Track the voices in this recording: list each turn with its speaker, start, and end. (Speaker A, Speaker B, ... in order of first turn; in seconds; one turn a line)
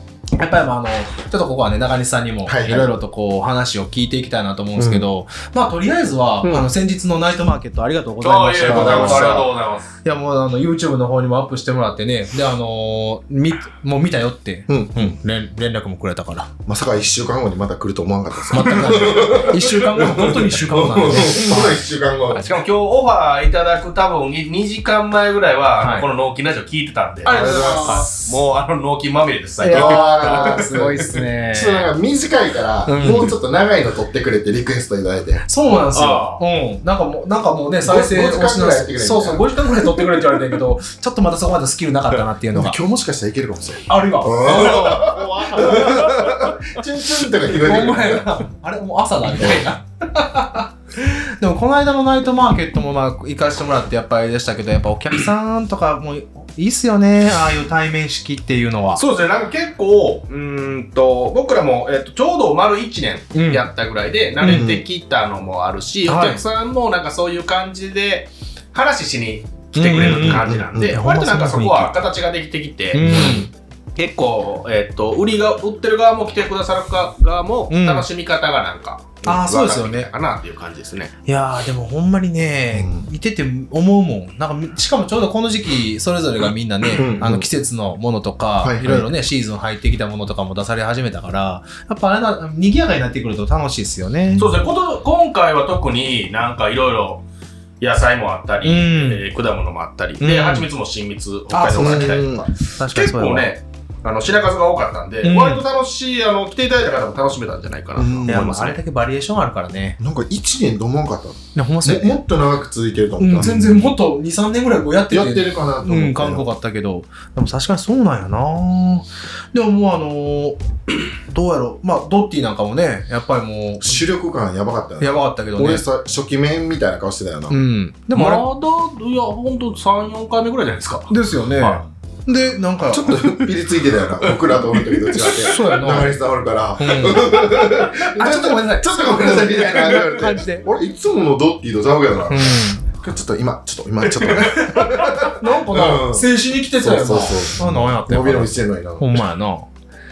Speaker A: 0.4-9.5
Speaker B: 2.5-2.9
Speaker B: 4.8-5.1
Speaker B: 6.4-6.7
Speaker C: 8.2-9.9
Speaker B: 8.6-9.5
Speaker A: 10.0-16.5
Speaker B: 14.7-15.2
Speaker B: 16.7-22.4
Speaker A: 18.5-21.8
Speaker C: 22.3-31.1
Speaker A: 25.8-26.1
Speaker A: 27.2-28.4
Speaker B: 27.3-28.1
Speaker A: 29.6-31.9
Speaker B: 29.7-35.5
Speaker A: 32.9-33.3
Speaker A: 35.5-42.8
Speaker C: 35.9-36.4
Speaker B: 37.8-40.0
Speaker B: 42.5-48.4
Speaker A: 43.9-46.1
Speaker C: 44.4-46.6
Speaker A: 47.5-59.0
Speaker B: 49.4-49.6
Speaker C: 59.0-73.0
Speaker A: 63.3-63.6
Speaker A: 64.4-64.8
Speaker B: 64.4-64.8
Speaker A: 66.0-66.4
Speaker A: 69.7-71.9
Speaker B: 69.9-71.0
Speaker A: 72.9-73.5
Speaker B: 73.0-73.5
Speaker C: 74.0-81.1
Speaker A: 77.7-78.1
Speaker A: 79.2-80.1
Speaker A: 81.3-94.5
Speaker B: 82.7-83.1
Speaker B: 87.0-87.5
Speaker B: 88.6-89.1
Speaker B: 94.3-94.5
Speaker C: 94.4-97.2
Speaker C: 97.8-108.8
Speaker A: 98.6-99.2
Speaker A: 100.2-100.7
Speaker A: 101.5-102.2
Speaker B: 101.8-102.5
Speaker A: 102.8-103.5
Speaker A: 105.2-105.6
Speaker B: 108.0-108.5
Speaker A: 108.3-110.0
Speaker B: 110.0-113.9
Speaker A: 111.5-112.2
Speaker A: 113.2-124.1
Speaker B: 115.1-116.5
Speaker B: 123.8-127.6
Speaker A: 125.0-125.8
Speaker A: 127.5-128.4
Speaker C: 128.1-131.8
Speaker A: 131.1-133.4
Speaker B: 132.9-149.2
Speaker A: 135.2-136.2
Speaker A: 136.8-140.7
Speaker A: 142.3-142.9
Speaker C: 144.1-145.1
Speaker A: 144.5-149.7